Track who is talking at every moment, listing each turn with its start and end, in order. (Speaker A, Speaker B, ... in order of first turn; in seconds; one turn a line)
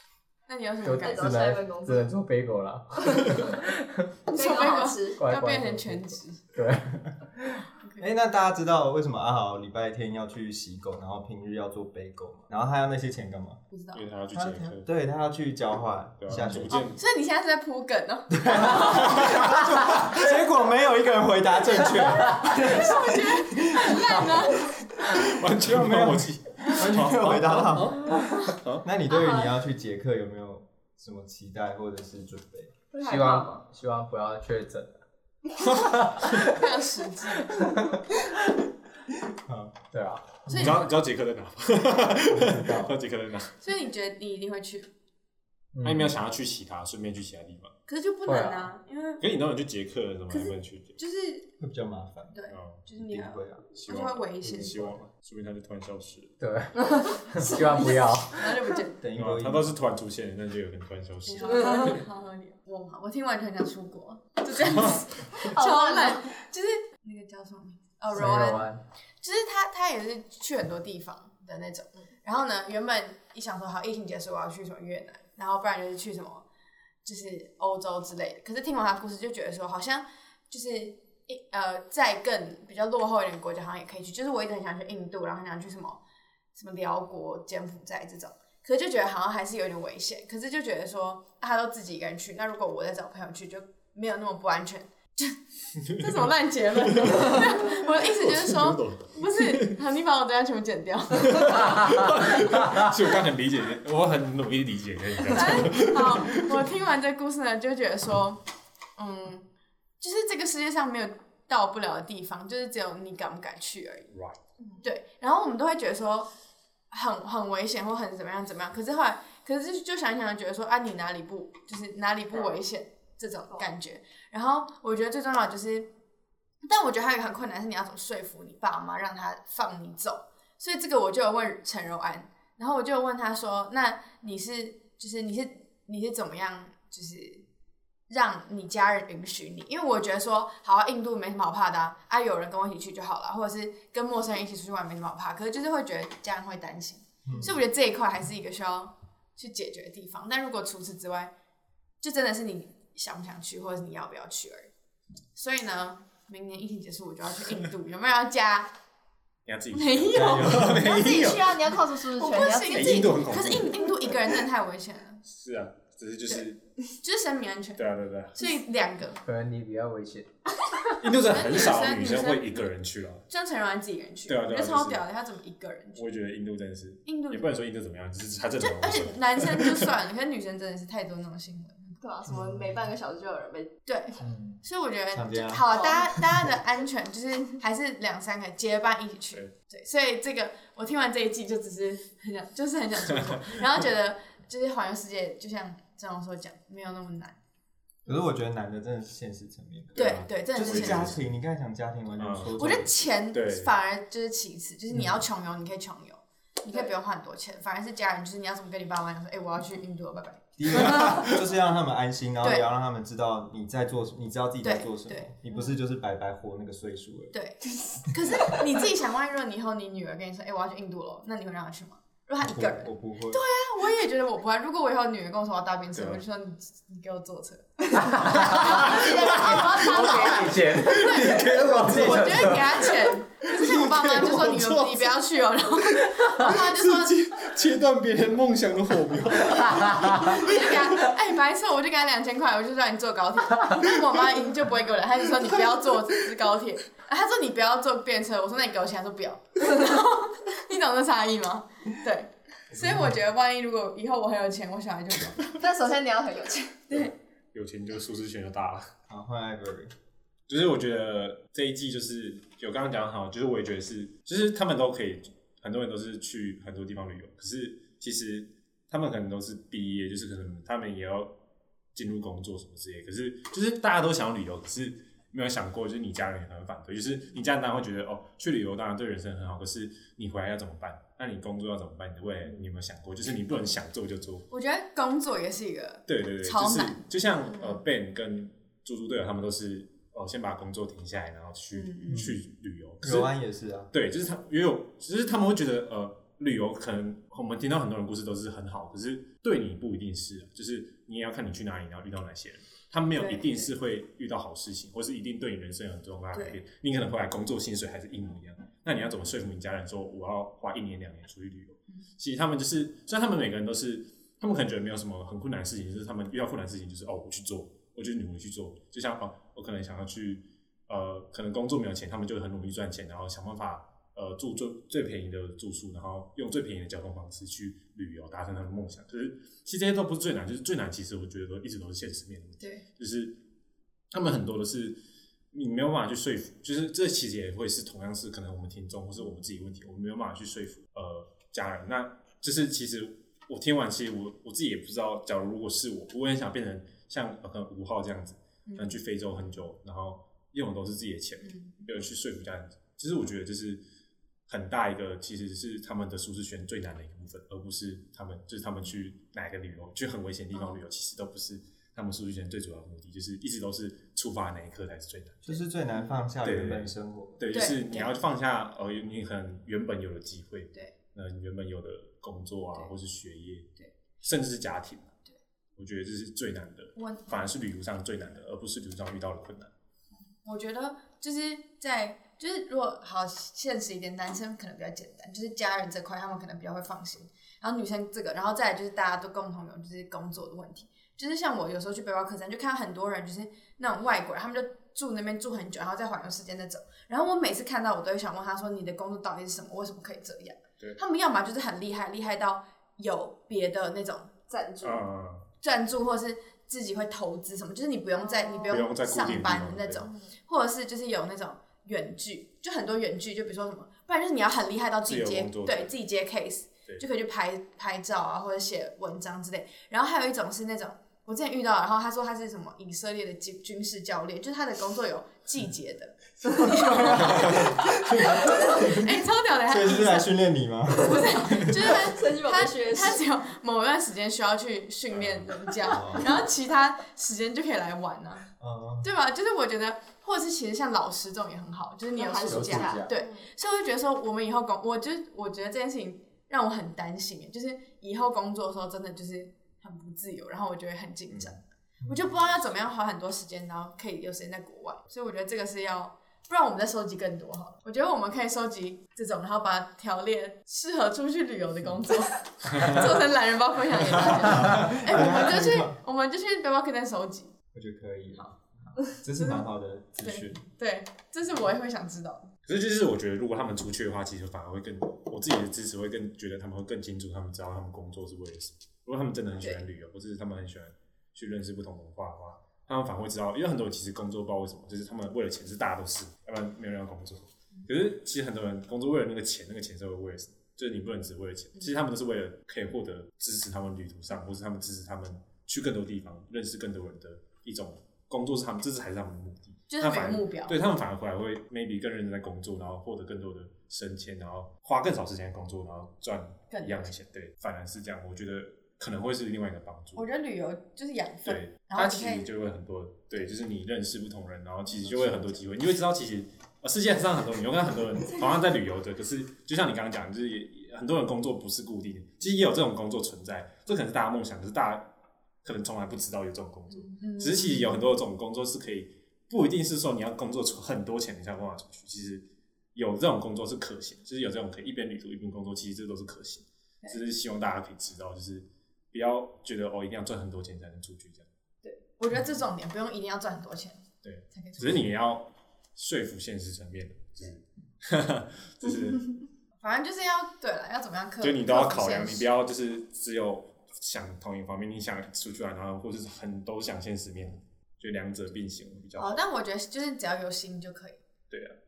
Speaker A: 0.5-1.4
Speaker B: 0.8-4.1
Speaker C: 1.0-2.1
Speaker C: 3.2-3.5
Speaker A: 4.3-6.4
Speaker C: 4.3-5.2
Speaker B: 5.2-7.7
Speaker A: 7.8-8.1
Speaker D: 8.0-13.6
Speaker A: 13.7-14.1
Speaker E: 13.9-14.9
Speaker D: 14.3-16.8
Speaker E: 16.2-17.0
Speaker A: 16.7-19.6
Speaker D: 18.4-28.1
Speaker E: 18.8-19.6
Speaker B: 22.2-22.4
Speaker A: 22.4-24.8
Speaker E: 25.2-28.9
Speaker B: 27.8-28.5
Speaker D: 28.8-32.8
Speaker C: 29.1-29.5
Speaker C: 32.9-33.6
Speaker B: 33.0-35.0
Speaker B: 35.7-36.5
Speaker A: 36.5-37.6
Speaker B: 37.5-38.2
Speaker D: 39.3-39.8
Speaker B: 39.9-40.4
Speaker D: 40.5-40.8
Speaker A: 40.5-40.8
Speaker E: 40.5-43.5
Speaker B: 42.3-42.9
Speaker A: 43.6-44.9
Speaker B: 45.7-46.1
Speaker E: 45.8-47.8
Speaker A: 47.9-49.2
Speaker B: 48.3-48.7
Speaker E: 49.2-51.0
Speaker A: 50.3-51.5
Speaker D: 51.6-52.4
Speaker A: 52.3-54.9
Speaker E: 52.5-52.9
Speaker D: 53.0-53.6
Speaker E: 53.7-56.4
Speaker B: 54.4-54.9
Speaker B: 56.4-58.8
Speaker C: 57.0-57.9
Speaker A: 57.5-59.0
Speaker D: 59.0-59.8
Speaker E: 59.1-62.0
Speaker A: 61.3-68.7
Speaker C: 61.4-62.0
Speaker C: 65.3-66.3
Speaker B: 68.1-68.8
Speaker A: 69.2-76.5
Speaker A: 77.0-86.0
Speaker A: 86.5-102.1
Speaker E: 96.9-99.8
Speaker E: 101.3-106.6
Speaker A: 105.3-108.4
Speaker A: 109.0-109.5
Speaker A: 110.0-114.1
Speaker E: 114.1-114.4
Speaker A: 114.8-116.3
Speaker A: 116.9-125.9
Speaker C: 122.3-122.6
Speaker A: 126.6-137.4
Speaker A: 138.1-151.3
Speaker D: 147.3-147.6
Speaker A: 152.0-154.7
Speaker A: 155.3-158.7
Speaker E: 159.5-161.7
Speaker A: 159.7-161.1
Speaker D: 160.1-160.8
Speaker C: 160.8-163.1
Speaker A: 162.1-165.2
Speaker E: 162.7-164.2
Speaker E: 165.3-166.6
Speaker A: 166.3-169.2
Speaker E: 167.8-168.4
Speaker B: 169.2-170.3
Speaker E: 171.0-173.3
Speaker A: 171.2-172.6
Speaker A: 173.3-176.0
Speaker E: 174.3-175.0
Speaker E: 175.9-179.9
Speaker A: 177.1-177.5
Speaker A: 178.6-182.0
Speaker C: 182.0-183.8
Speaker A: 183.9-197.4
Speaker D: 184.3-184.6
Speaker D: 185.1-186.4
Speaker C: 185.7-186.0
Speaker D: 198.1-203.1
Speaker E: 199.9-201.2
Speaker A: 200.0-201.1
Speaker E: 202.2-202.6
Speaker A: 202.6-211.3
Speaker E: 203.3-203.7
Speaker D: 210.6-217.4
Speaker E: 210.8-211.3
Speaker A: 212.4-212.7
Speaker A: 214.6-215.3
Speaker A: 217.3-237.2
Speaker D: 222.4-223.4
Speaker E: 225.9-226.2
Speaker B: 227.9-229.0
Speaker E: 228.3-232.8
Speaker C: 228.9-230.2
Speaker B: 229.7-232.9
Speaker E: 233.4-235.1
Speaker E: 236.1-241.0
Speaker B: 239.5-240.5
Speaker A: 240.3-255.5
Speaker D: 252.7-253.1
Speaker C: 255.5-256.9
Speaker E: 257.5-258.9
Speaker D: 259.1-259.9
Speaker E: 260.5-271.3
Speaker E: 271.9-284.5
Speaker A: 284.5-287.0
Speaker E: 286.1-293.3
Speaker A: 291.7-292.3
Speaker D: 293.0-293.9
Speaker E: 293.9-333.4
Speaker A: 303.1-303.7
Speaker A: 306.3-306.6
Speaker E: 334.1-335.0
Speaker E: 335.5-353.8
Speaker A: 348.7-349.0
Speaker A: 351.4-351.7
Speaker E: 354.5-365.6
Speaker A: 360.5-360.8
Speaker D: 365.4-367.7
Speaker E: 366.4-375.1
Speaker A: 367.5-368.1
Speaker E: 375.8-379.7
Speaker A: 377.0-377.3
Speaker A: 380.4-404.3
Speaker C: 404.5-405.0
Speaker E: 404.8-405.5
Speaker A: 405.6-430.3
Speaker C: 408.2-408.8
Speaker E: 408.7-410.1
Speaker E: 415.0-416.0
Speaker D: 426.9-429.1
Speaker E: 427.1-427.7
Speaker D: 429.7-431.7
Speaker A: 430.9-438.5
Speaker C: 431.9-433.3
Speaker E: 435.1-436.2
Speaker D: 435.9-436.3
Speaker D: 438.6-439.1
Speaker A: 439.0-467.5
Speaker C: 442.1-443.5
Speaker B: 442.4-443.1
Speaker E: 451.3-451.6
Speaker D: 464.5-466.0
Speaker D: 467.7-470.6
Speaker A: 469.4-469.6
Speaker A: 470.2-472.5
Speaker E: 472.7-510.3
Speaker A: 499.9-500.8
Speaker A: 506.7-507.1
Speaker A: 510.2-512.5
Speaker E: 511.4-525.0
Speaker A: 514.9-515.6
Speaker E: 525.6-541.5
Speaker A: 527.1-528.0
Speaker A: 541.8-544.0
Speaker E: 544.2-549.4
Speaker A: 544.6-545.0
Speaker A: 549.8-552.5
Speaker E: 551.4-559.4
Speaker A: 559.2-561.2
Speaker E: 561.5-561.8